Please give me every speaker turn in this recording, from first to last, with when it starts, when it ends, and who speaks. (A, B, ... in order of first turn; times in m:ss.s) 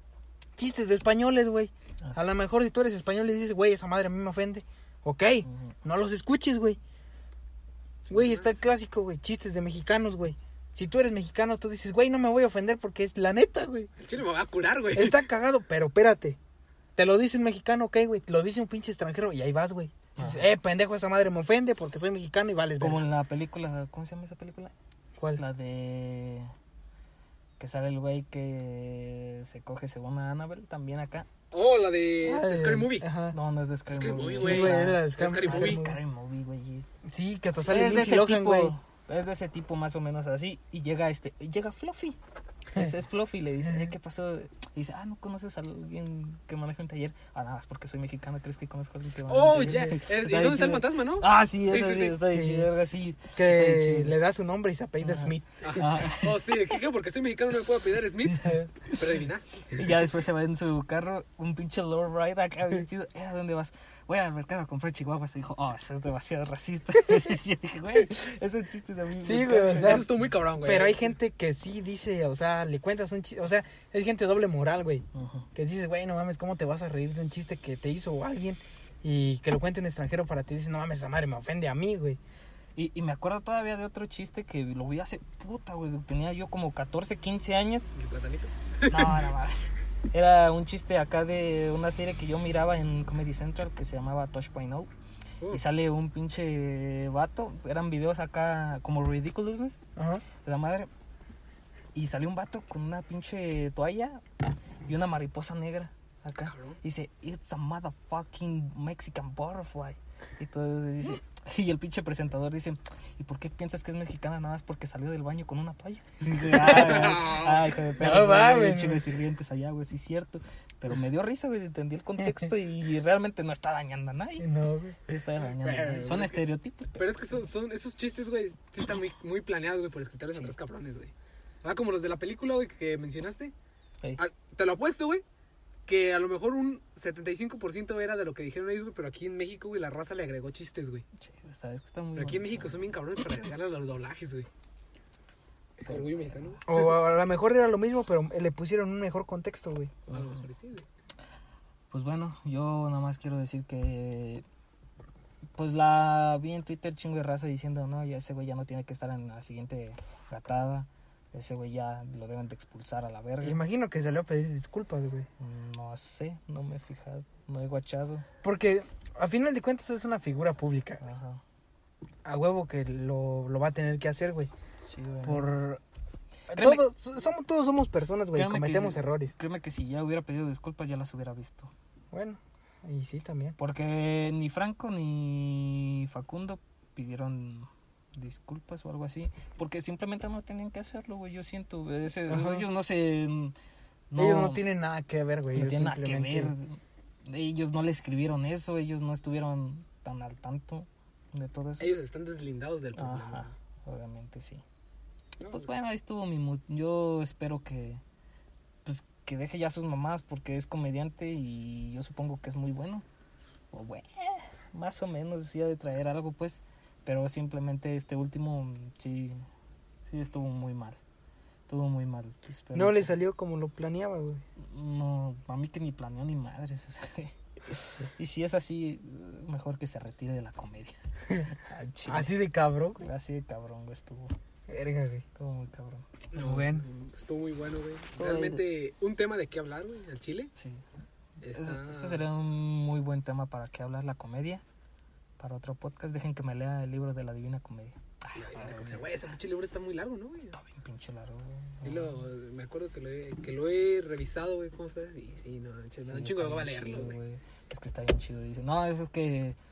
0:00.6-0:06.8 A
0:05.5-0:05.7 B
0:08.1-0:08.5 C
0:08.1-0:13.9 A
0:14.0-0:15.2 C
0:14.9-0:16.4 A
0:17.0-0:23.0 A
0:20.2-0:20.4 B
0:22.8-0:24.7 B
0:25.2-0:25.4 A
0:25.4-0:26.5 B
0:27.6-0:31.3 B
0:31.5-0:33.1 C
0:32.2-0:33.4 A
0:33.3-0:36.9 B
0:33.9-0:35.8 C
0:34.4-0:36.0 A
0:37.0-0:38.8 A
0:37.6-0:42.2 B
0:42.7-0:54.2 B
0:49.3-0:52.2 C
0:52.3-0:52.7 A
0:53.4-0:55.9 A
0:55.0-0:56.6 B
0:55.6-0:59.9 C
0:58.4-0:58.7 A
0:59.7-1:10.1 B
1:09.2-1:22.2 A
1:09.8-1:11.1 C
1:15.1-1:15.5 B
1:22.8-1:27.9 B
1:28.0-1:29.2 C
1:28.9-1:34.9 B
1:35.5-1:39.8 B
1:40.0-1:40.2 A
1:40.4-1:40.9 B
1:42.0-1:44.2 B
1:44.9-2:04.5 B
1:46.5-1:46.8 C
1:56.5-1:57.3 A
1:56.8-1:57.7 C
1:58.0-1:59.0 A
2:02.2-2:02.5 A
2:04.4-2:05.0 A
2:05.1-2:07.4 B
2:05.6-2:06.4 C
2:07.0-2:13.5 C
2:14.2-2:15.2 C
2:15.9-2:21.0 C
2:21.2-2:22.8 B
2:22.2-2:24.5 C
2:25.8-2:26.6 B
2:25.9-2:26.6 C
2:26.7-2:30.0 A
2:30.1-2:30.9 C
2:30.1-2:30.4 B
2:31.9-2:34.4 B
2:35.6-2:43.6 B
2:43.4-2:45.3 A
2:45.4-2:48.3 B
2:48.4-2:51.0 A
2:51.0-2:51.4 B
2:52.2-2:54.5 A
2:54.9-2:55.5 B
2:55.2-2:55.8 A
2:56.5-2:59.3 A
2:56.5-2:56.8 B
2:58.3-3:01.7 B
3:02.1-3:03.6 A
3:03.6-3:13.5 B
3:12.3-3:12.7 A
3:14.1-3:14.6 B
3:14.2-3:16.5 A
3:15.5-3:21.9 B
3:21.8-3:23.5 C
3:23.0-3:24.6 B
3:25.4-3:25.7 C
3:25.5-3:28.0 B
3:28.8-3:33.0 B
3:33.7-3:39.4 B
3:40.1-3:41.0 B
3:41.7-3:43.2 B
3:42.7-3:44.4 A
3:44.6-3:52.3 B
3:52.1-3:53.1 A
3:53.0-3:54.4 B
3:54.7-3:55.2 A
3:55.4-3:56.1 B
3:56.3-4:00.5 C
3:56.4-3:56.9 A
3:58.2-3:58.6 B
4:00.6-4:00.8 B
4:01.4-4:02.2 C
4:01.5-4:04.6 B
4:05.4-4:09.1 B
4:08.4-4:10.6 C
4:10.5-4:12.2 B
4:11.8-4:17.2 C
4:16.1-4:19.6 B